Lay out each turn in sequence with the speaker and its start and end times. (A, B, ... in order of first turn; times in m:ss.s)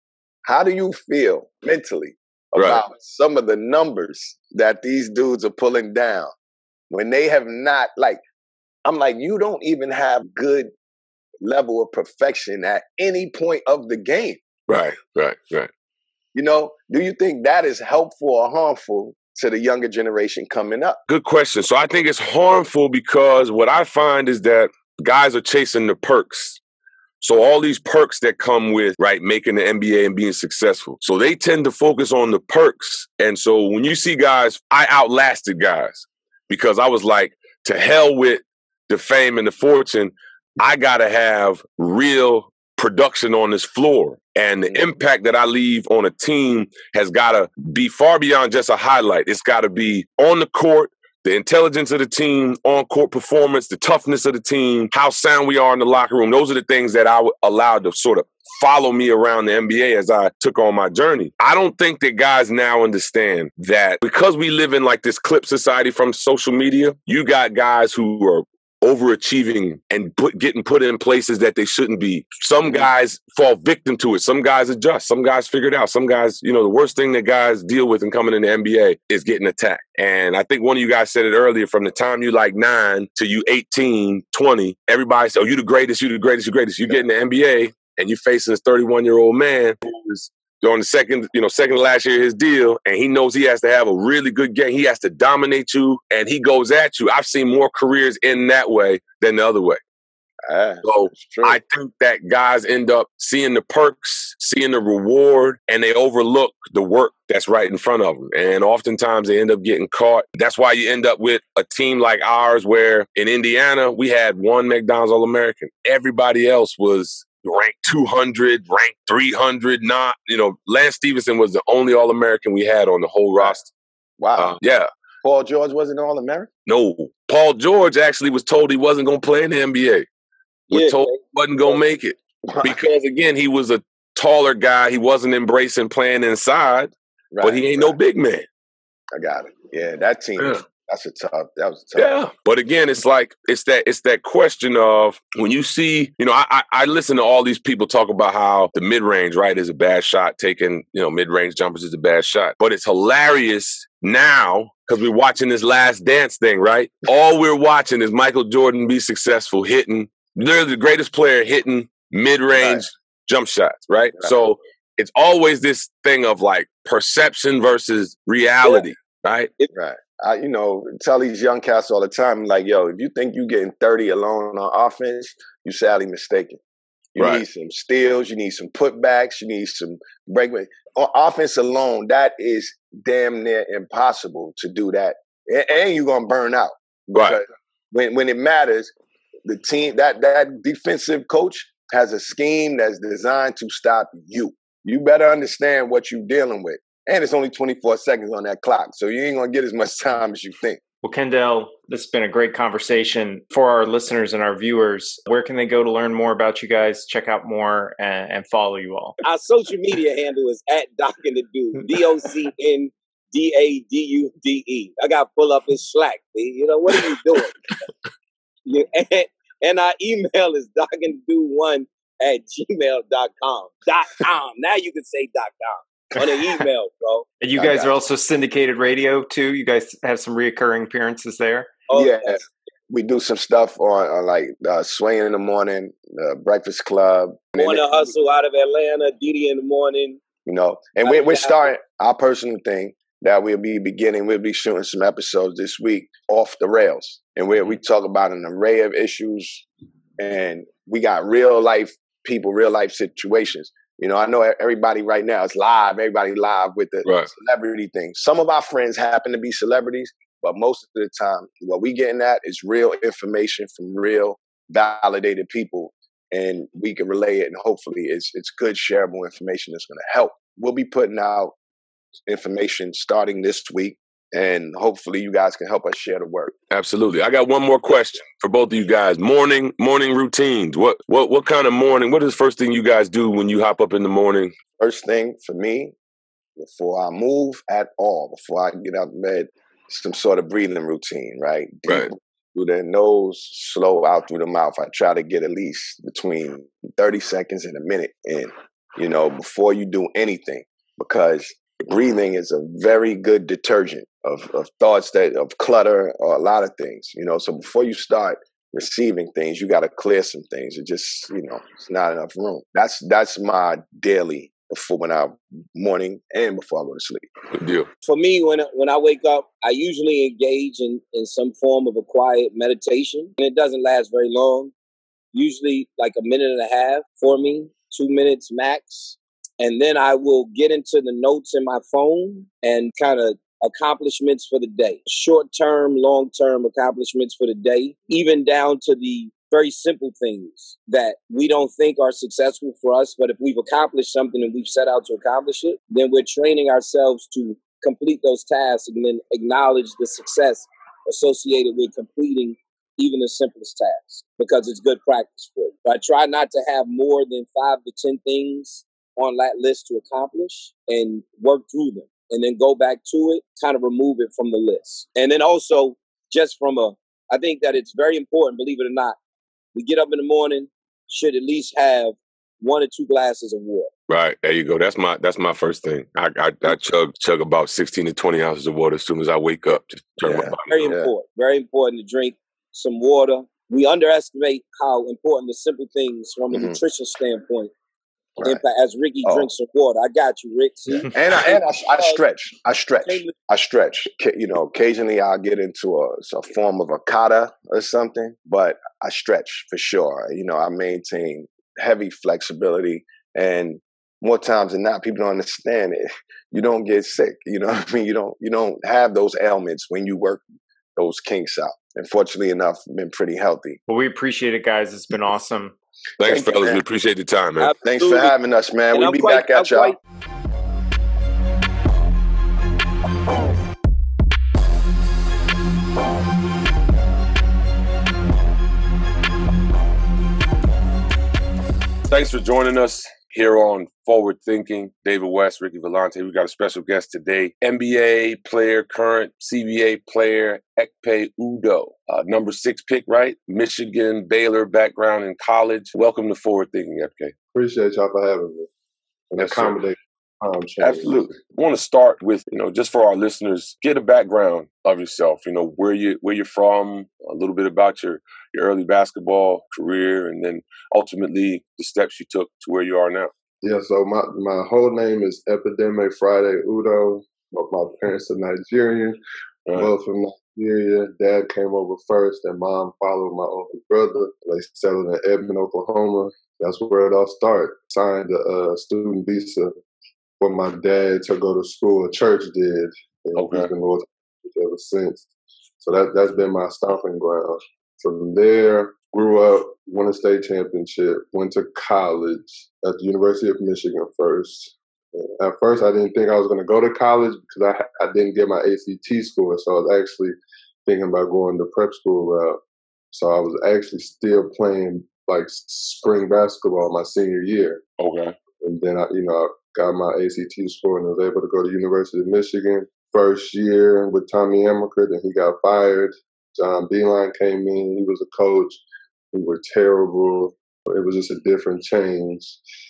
0:00.4-0:06.3 A
0:02.6-0:02.8 B
0:06.9-0:08.2 A
0:08.8-0:10.7 A
0:11.4-0:14.4 A
0:14.7-0:15.7 B
0:16.4-0:21.0 A
0:21.1-0:26.6 B
0:27.2-1:39.8 B
1:40.5-1:41.6 A
1:40.8-2:03.7 B
2:04.2-2:04.5 A
2:04.4-2:04.9 B
2:05.2-2:06.5 A
2:06.7-2:10.1 B
2:10.7-2:18.5 B
2:10.7-2:11.2 C
2:12.5-2:12.9 A
2:17.3-2:18.0 A
2:19.1-2:22.1 A
2:22.0-2:49.5 B
2:42.6-2:42.8 A
2:49.7-2:56.6 A
2:57.2-3:08.9 A
2:57.2-2:57.4 B
3:07.1-3:07.4 B
3:09.4-3:20.8 A
3:21.0-3:29.2 D
3:29.2-3:37.5 C
3:38.6-3:47.3 C
3:47.4-3:51.8 D
3:47.6-3:47.9 A
3:51.9-3:52.4 C
3:51.9-3:58.0 A
3:57.6-4:00.2 C
4:00.4-4:09.7 A
4:01.0-4:01.7 C
4:10.2-4:31.6 A
4:17.0-4:17.3 B
4:32.3-4:36.5 A
4:36.7-4:44.5 B
4:44.8-4:46.0 A
4:46.6-5:17.3 A
5:17.5-5:17.9 B
5:18.0-5:24.7 C
5:25.3-6:09.2 C
6:09.7-6:13.9 C
6:14.1-6:20.9 B
6:20.2-6:21.1 A
6:20.7-6:27.7 C
6:26.5-6:26.8 A
6:28.4-6:28.6 A
6:28.4-6:32.2 C
6:29.2-6:29.5 A
6:31.1-6:50.4 A
6:33.0-6:33.3 C
6:51.0-6:53.8 A
6:53.9-6:55.8 D
6:56.2-6:57.7 B
6:56.2-6:56.8 A
6:57.6-6:58.4 C
6:57.8-7:00.0 A
6:58.9-7:00.0 C
7:12.1-7:27.3 B
7:27.5-7:28.7 E
7:29.3-7:31.3 E
7:29.4-7:29.8 B
7:30.8-7:43.3 B
7:43.6-7:49.2 E
7:49.8-7:59.7 E
8:00.4-8:05.3 E
8:03.4-8:03.7 B
8:05.8-8:22.6 E
8:23.1-8:27.8 E
8:28.0-8:28.4 B
8:28.6-8:38.8 E
8:39.3-8:42.6 E